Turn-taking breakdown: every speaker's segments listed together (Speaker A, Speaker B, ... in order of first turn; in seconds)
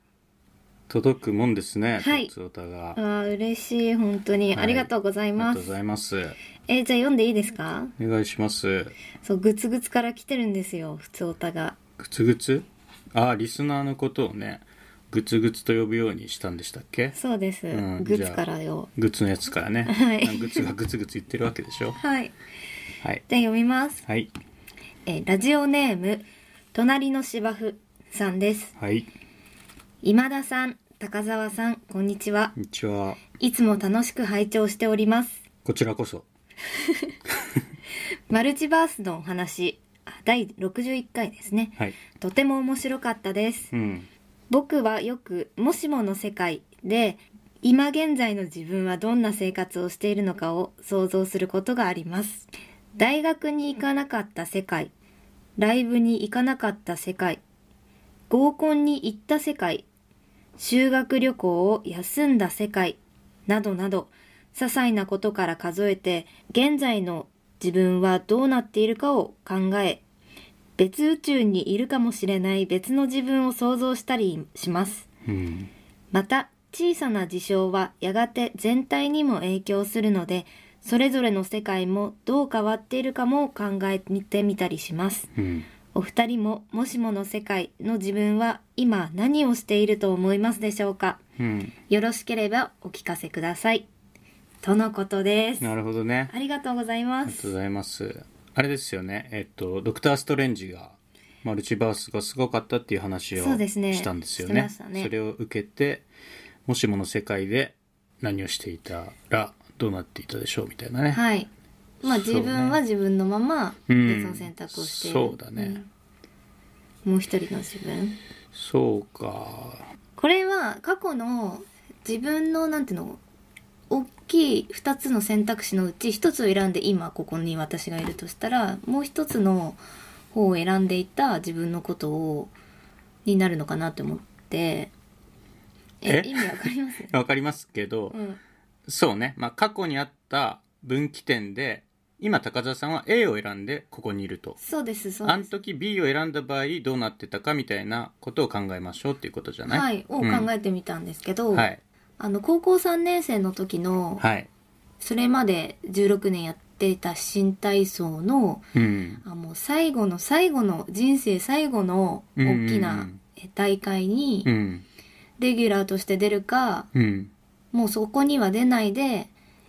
Speaker A: 0.9-3.0, 4.5-6.4, 8.0-8.9, 12.0-17.2, 17.7-18.4, 19.0-22.0, 24.0-24.3, 28.8-29.1, 32.6-33.2, 35.6-36.2, 43.7-44.1, 75.2-75.7, 85.3-85.7, 91.4-91.7, 95.6-96.3, 97.2-106.1, 106.7-111.2, 112.0-112.8, 113.9-115.8, 118.5-119.8, 136.0-136.5, 137.1-138.2, 138.9-144.6, 145.2-150.5, 151.5-151.8, 154.2-154.5, 158.8-159.2, 162.4-163.2, 164.4-164.8, 166.9-167.3
Speaker B: 2.0-2.3, 3.0-5.7, 6.7-7.9, 9.2-11.8, 17.2-18.9, 19.9-20.7, 22.0-22.3, 23.3-24.0, 25.1-28.7, 30.0-32.5, 33.4-35.4, 38.3-43.7, 44.5-54.9, 55.6-57.4, 58.3-59.9, 60.6-70.0, 70.8-75.1, 76.1-85.3, 85.9-91.2, 91.9-93.9, 94.6-95.7, 96.3-97.5, 103.4-105.1, 111.1-111.5, 112.0-115.9, 117.0-118.2, 120.2-123.2, 123.9-129.8, 130.3-132.5, 133.2-134.9, 136.0-137.1, 138.1-138.4, 144.6-145.5, 149.7-154.2, 155.0-158.6, 159.2-164.5, 165.4-166.9, 167.7-169.3